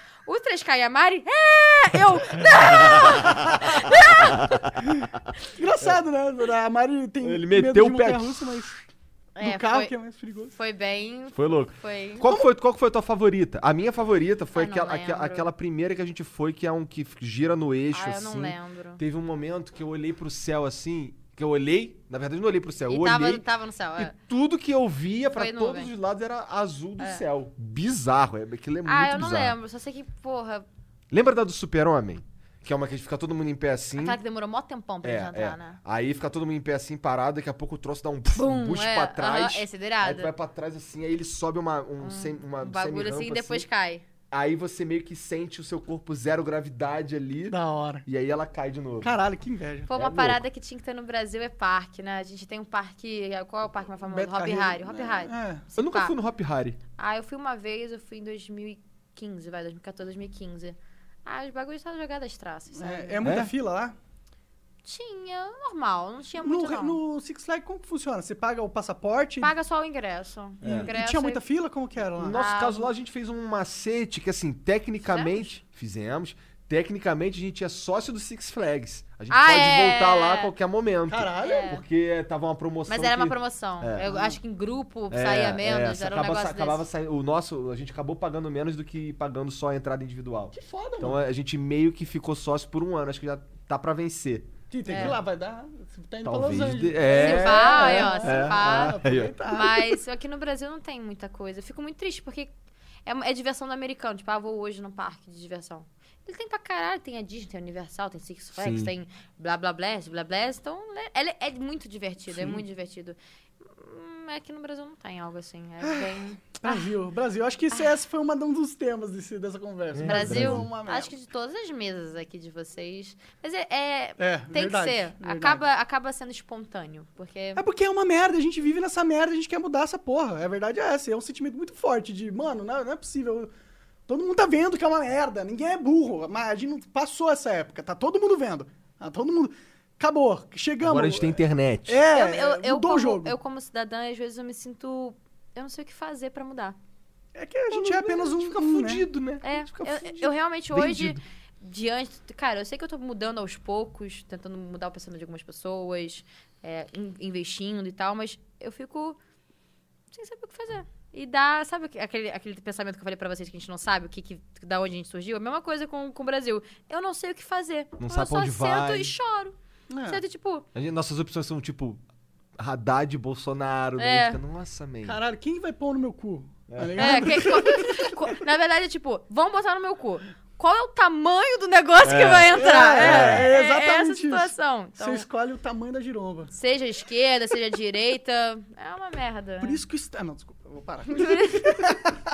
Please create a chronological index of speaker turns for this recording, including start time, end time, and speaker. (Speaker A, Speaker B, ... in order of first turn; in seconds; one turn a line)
Speaker A: 0.2-4.8
Speaker B: 2.6-4.7
Speaker C: 5.0-8.8
Speaker B: 7.2-8.7
Speaker A: 9.3-9.9
Speaker C: 9.4-10.5
Speaker A: 10.5-12.3
Speaker B: 11.3-23.4
Speaker A: 14.5-15.5
Speaker A: 17.9-19.0
Speaker A: 22.9-24.1
Speaker B: 24.0-29.6
Speaker A: 25.4-25.9
Speaker A: 28.8-30.7
Speaker B: 31.1-34.2
Speaker A: 34.0-35.8
Speaker B: 35.0-43.6
Speaker A: 38.3-40.3
Speaker A: 42.0-44.0
Speaker B: 44.3-49.1
Speaker C: 47.5-48.0
Speaker C: 49.0-49.9
Speaker A: 49.9-56.1
Speaker B: 49.9-50.4
Speaker C: 54.0-55.6
Speaker B: 55.8-56.8
Speaker A: 57.0-63.2
Speaker C: 62.8-64.0
Speaker B: 63.2-63.5
Speaker A: 64.8-67.0
Speaker C: 66.4-69.5
Speaker A: 69.4-71.4
Speaker B: 70.6-70.9
Speaker C: 70.6-72.4
Speaker B: 72.2-84.1
Speaker A: 72.3-72.9
Speaker A: 75.0-75.5
Speaker A: 79.3-80.5
Speaker C: 81.1-81.7
Speaker A: 81.4-81.8
Speaker A: 82.9-86.8
Speaker C: 84.0-84.4
Speaker B: 85.1-95.2
Speaker C: 90.5-91.2
Speaker C: 94.7-100.0
Speaker A: 94.9-95.2
Speaker B: 96.2-99.3
Speaker A: 97.1-102.5
Speaker A: 103.0-116.9
Speaker B: 108.6-108.9
Speaker C: 112.3-112.6
Speaker C: 115.8-121.1
Speaker B: 119.9-120.7
Speaker A: 120.0-127.6
Speaker C: 124.2-125.6
Speaker C: 127.5-133.5
Speaker C: 134.1-143.3
Speaker B: 140.8-142.0
Speaker A: 142.1-146.8
Speaker C: 147.3-149.0
Speaker B: 147.7-151.2
Speaker A: 149.4-159.2
Speaker A: 160.1-170.6
Speaker B: 168.0-169.1
Speaker C: 169.9-170.2
Speaker B: 170.7-172.0
Speaker B: 172.6-175.2
Speaker A: 174.0-174.4
Speaker C: 175.0-178.1
Speaker B: 176.7-177.4
Speaker A: 177.0-185.2
Speaker B: 182.0-183.5
Speaker C: 182.5-186.5
Speaker A: 186.5-189.8
Speaker C: 189.6-192.1
Speaker A: 191.1-191.9